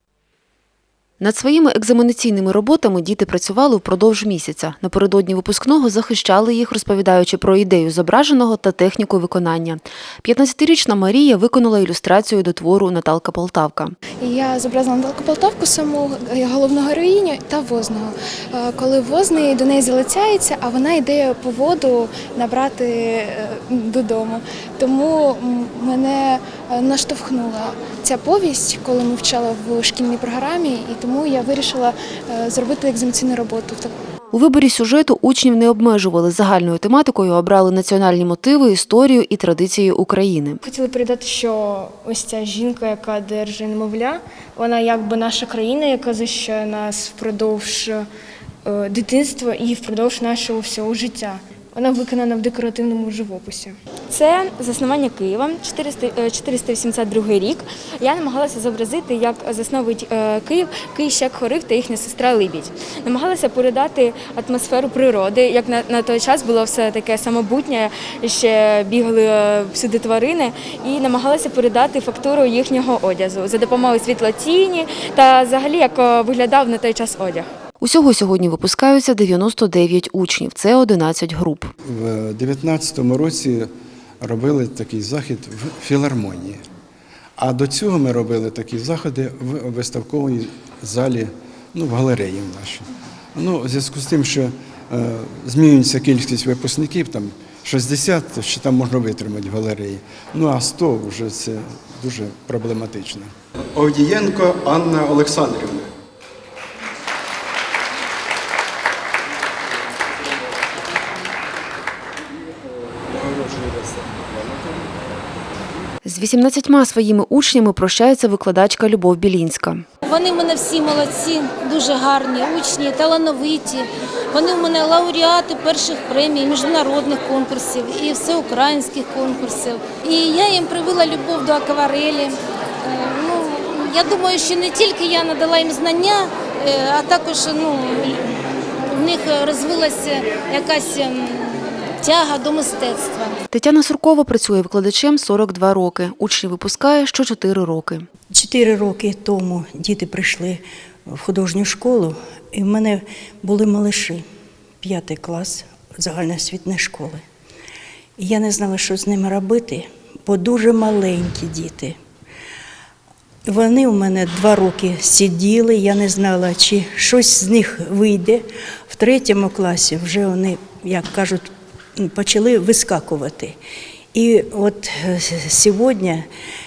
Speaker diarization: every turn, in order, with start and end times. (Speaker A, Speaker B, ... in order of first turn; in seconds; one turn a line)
Speaker A: 1.2-13.9
Speaker B: 14.2-33.9
Speaker A: 34.3-40.6
Speaker C: 41.9-42.4
Speaker C: 43.0-44.8
Speaker C: 45.5-48.0
Speaker C: 48.7-49.2
Speaker C: 50.1-50.8
Speaker C: 51.3-53.7
Speaker D: 54.1-77.5
Speaker A: 77.9-81.6
Speaker E: 81.9-83.7
Speaker E: 84.2-86.6
Speaker E: 87.4-105.9
Speaker E: 113.1-114.9
Speaker A: 116.1-119.8
Speaker F: 120.0-143.4
Speaker A: 143.6-148.0
Speaker G: 148.3-154.2
Speaker G: 154.8-157.2
Speaker G: 158.2-162.0
Speaker G: 163.4-173.6
Speaker G: 174.1-176.3